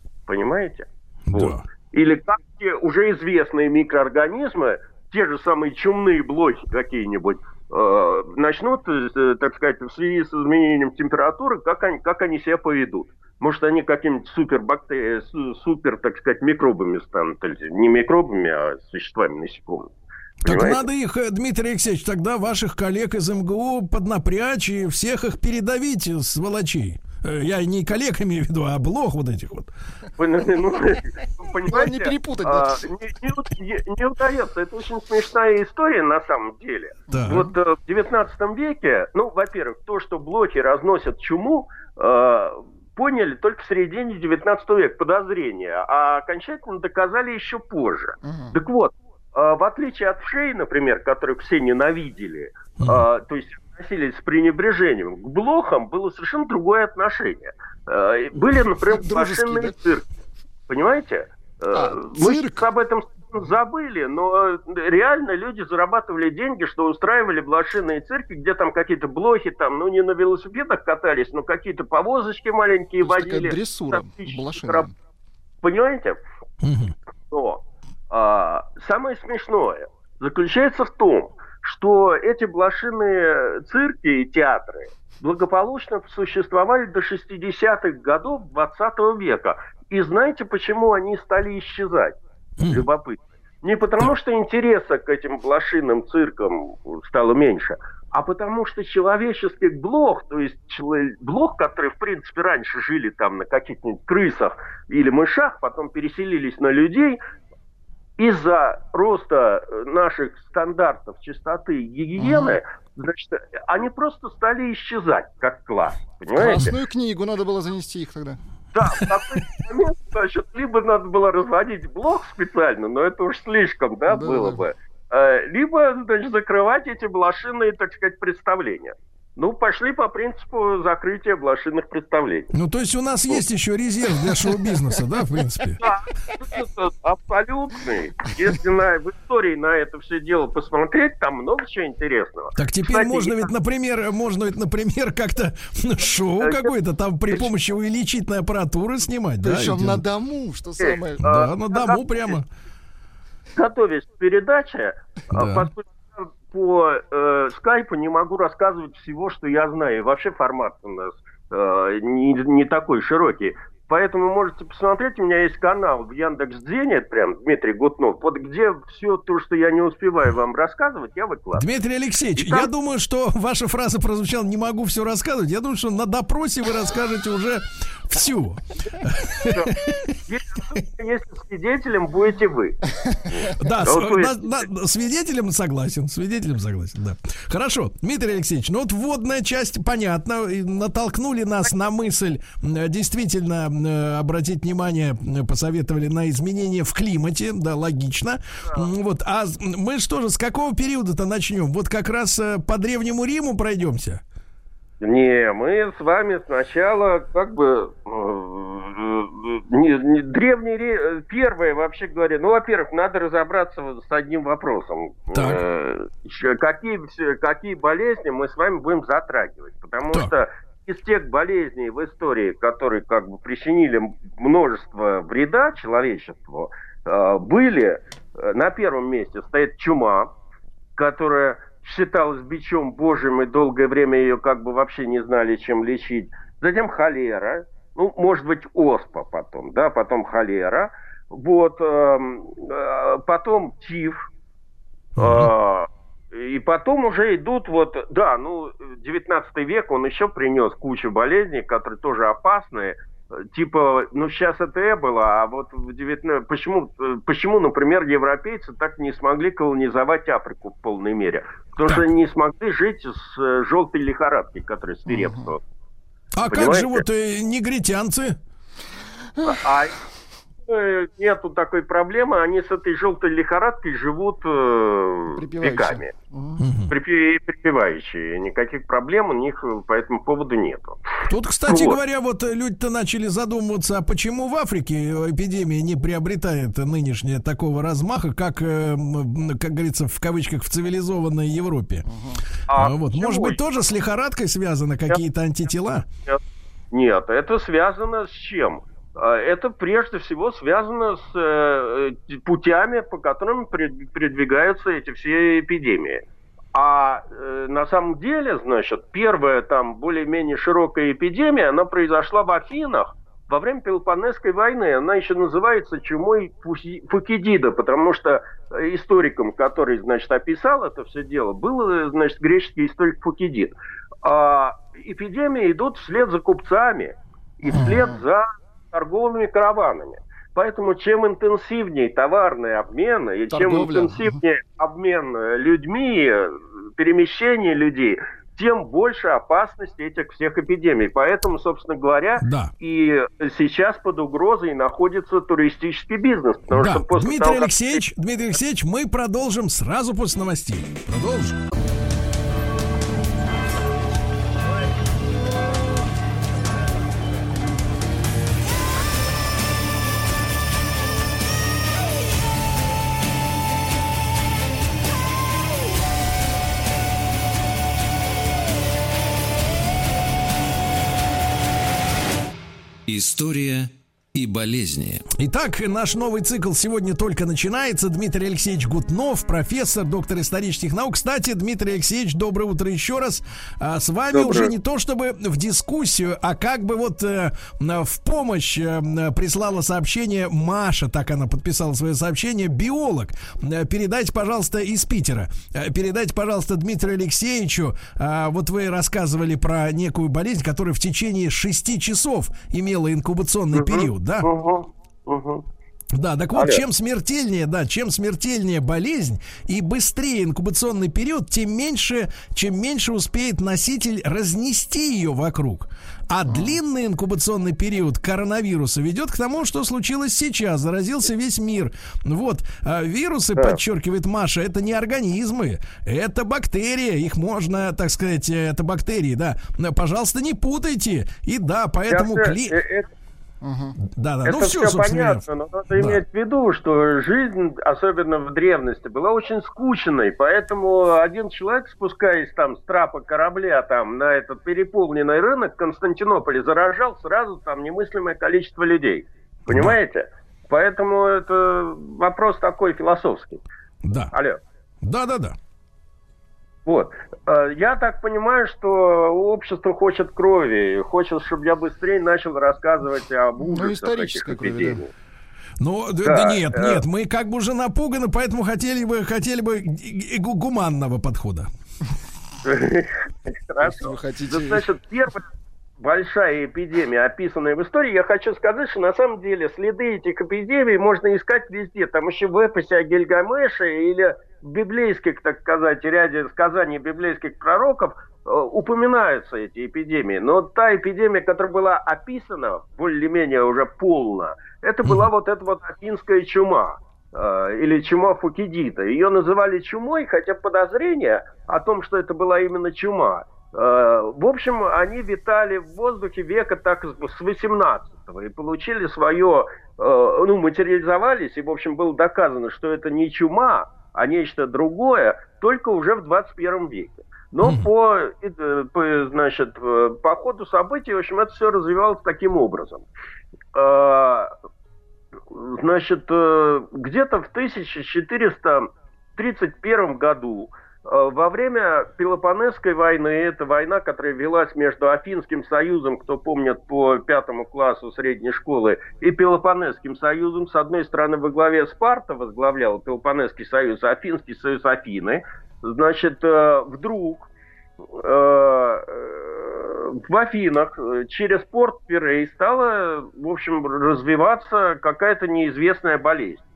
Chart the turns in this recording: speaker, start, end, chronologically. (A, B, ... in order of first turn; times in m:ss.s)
0:00.3-0:19.9 A
0:01.3-0:01.6 B
0:20.4-0:29.7 B
0:20.4-0:20.8 A
0:30.2-1:00.0 A
0:31.6-0:32.9 C
0:37.1-0:37.5 C
0:37.1-0:37.5 B
0:48.2-0:48.5 C
0:52.8-0:53.0 B
0:58.8-0:59.8 C
1:00.7-1:14.9 A
1:01.7-1:02.6 C
1:13.0-1:14.9 C
1:15.6-1:16.2 A
1:16.6-1:16.9 B
1:17.3-1:47.2 A
1:32.6-1:32.8 B
1:48.2-1:56.7 A
1:52.2-1:52.6 C
1:56.3-1:58.4 C
1:58.7-2:12.5 A
2:04.1-2:04.6 C
2:12.5-2:15.8 B
2:15.8-2:23.5 A
2:22.6-2:30.0 B
2:26.4-2:26.7 A
2:29.4-2:31.3 C
2:30.8-2:32.4 A
2:31.2-2:32.5 B
2:33.5-2:51.6 A
2:35.3-2:35.7 B
2:51.5-3:00.2 B
2:52.4-2:52.7 A
2:59.5-3:04.6 A
3:03.5-3:24.2 B
3:25.0-3:50.3 A
3:35.3-3:35.6 B
3:51.0-4:04.2 A
4:05.2-4:25.6 A
4:05.2-4:05.5 B
4:25.1-4:25.5 C
4:26.3-4:28.4 B
4:26.4-4:27.0 A
4:29.4-4:29.9 A
4:30.7-4:36.1 A
4:35.4-4:36.6 C
4:36.6-4:36.9 B
4:36.9-4:42.0 A
4:41.2-4:52.0 B
4:52.0-4:52.4 C
4:52.7-4:53.6 A
4:52.7-4:56.1 B
4:56.9-5:06.2 A
5:06.7-5:48.0 A
5:27.7-5:28.2 C
5:33.5-5:34.4 C
5:42.4-5:42.7 B
5:46.7-5:51.6 B
6:13.1-6:15.2 D
6:15.4-6:44.5 B
6:24.3-6:24.7 A
6:43.7-6:45.6 A
6:46.1-7:12.8 B
6:46.5-6:46.8 A
7:12.1-7:13.1 A
7:13.6-7:14.0 C
7:14.0-7:16.2 B
7:14.4-7:33.6 A
7:29.7-7:30.0 B
7:34.0-7:34.3 B
7:34.3-7:34.6 A
7:35.0-7:35.6 B
7:36.8-7:45.1 A
7:43.6-7:45.0 C
7:45.8-7:51.7 B
7:46.2-7:47.0 A
7:52.6-7:55.5 A
7:53.8-7:54.9 C
7:56.0-8:43.1 A
8:15.0-8:15.3 B
8:37.6-8:37.9 B
8:43.7-8:44.5 A
8:45.5-9:07.5 A
9:08.1-9:16.6 A